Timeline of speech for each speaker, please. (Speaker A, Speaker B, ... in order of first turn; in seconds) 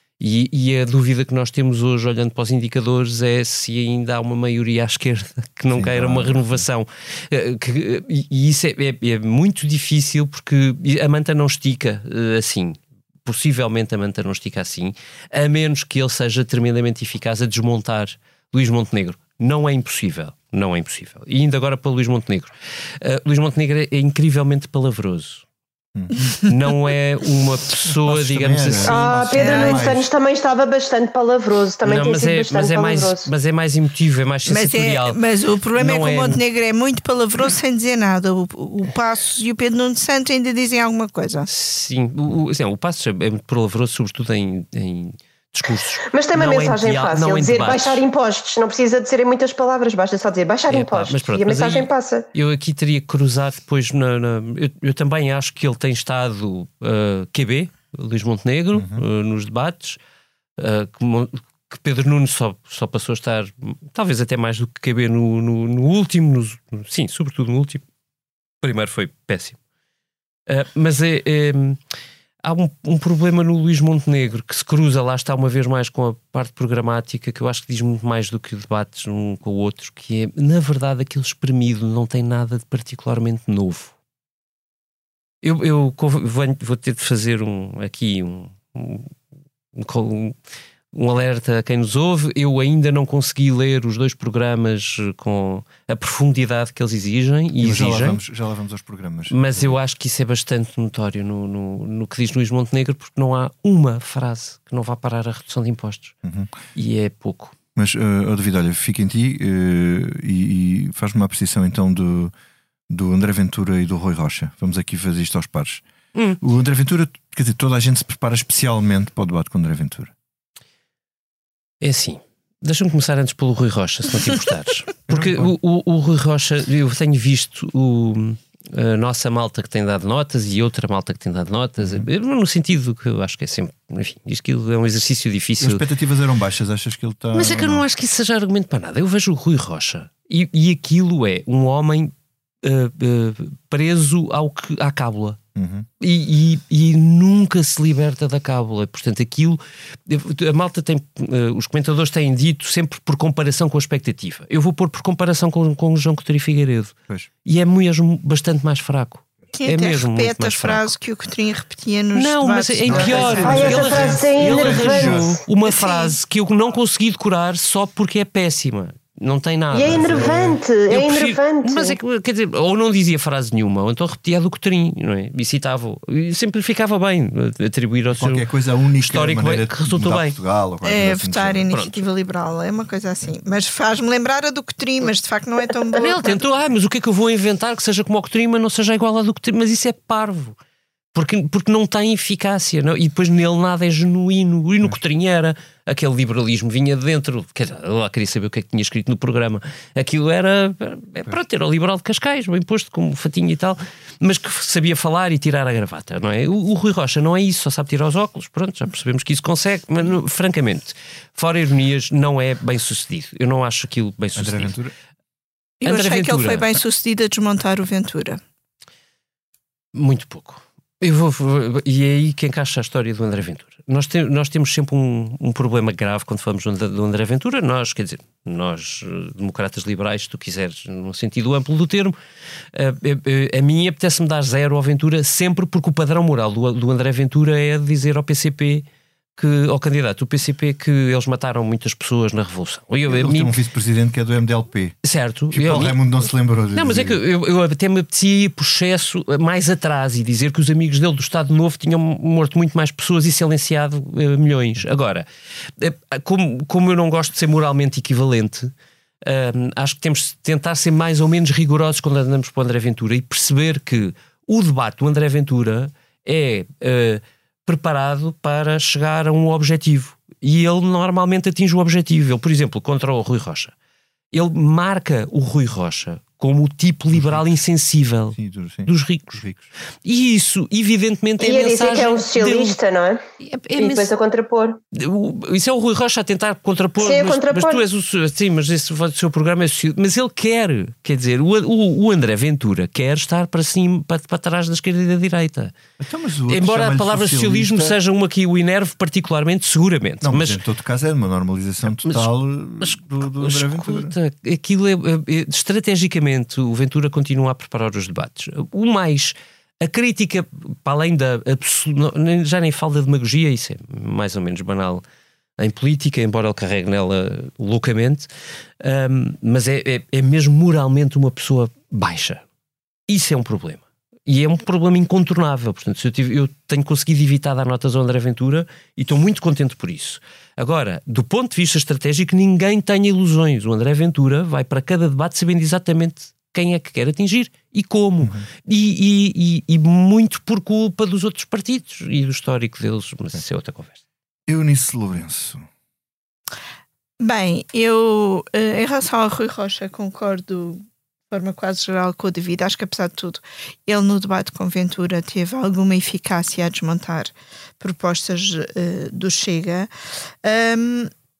Speaker A: 0.2-25.4, 26.4-29.1, 31.8-35.2, 35.8-36.4, 41.5-48.0, 50.7-60.0, 60.6-67.8, 68.6-69.6, 70.5-71.8, 72.4-83.9, 85.4-89.1, 89.8-90.4, 90.9-98.2, 99.3-106.2, 106.8-107.5, 116.2-116.4, 121.8-135.9, 137.3-145.4, 146.0-160.9, 162.2-178.4, 179.0-180.4, 181.7-182.0, 186.0-190.6, 191.1-214.7, 215.9-216.7, 219.9-232.2, 232.7-238.9, 239.4-243.6, 245.0-246.2, 246.7-255.3, 255.8-258.7, 259.2-273.7, 274.3-279.4, 280.1-282.8, 283.4-284.1, 284.9-295.8, 296.5-300.6, 302.0-315.0, 315.6-322.4, 323.1-344.0
Speaker B: 5.7-6.7, 25.9-26.4, 27.9-30.1, 58.7-59.0, 97.6-99.8, 106.2-106.6, 107.8-112.3, 112.9-115.8, 116.4-120.1, 125.1-125.5, 131.8-132.1, 135.6-137.8, 145.6-145.9, 162.9-165.4, 169.9-170.3, 178.2-181.7, 214.4-214.9, 243.1-244.9, 245.5-247.2, 277.1-277.4, 278.3-279.7, 296.0-298.0, 300.2-304.1, 338.2-338.5, 344.5-345.7
Speaker C: 28.8-33.3, 46.1-52.2, 163.4-165.3, 169.7-172.0, 281.4-283.2, 283.8-284.8, 287.0-287.8
Speaker D: 29.4-29.8, 34.5-41.5, 159.6-163.8, 165.6-166.1, 180.8-186.4, 215.8-218.4, 347.2-359.9, 360.4-361.1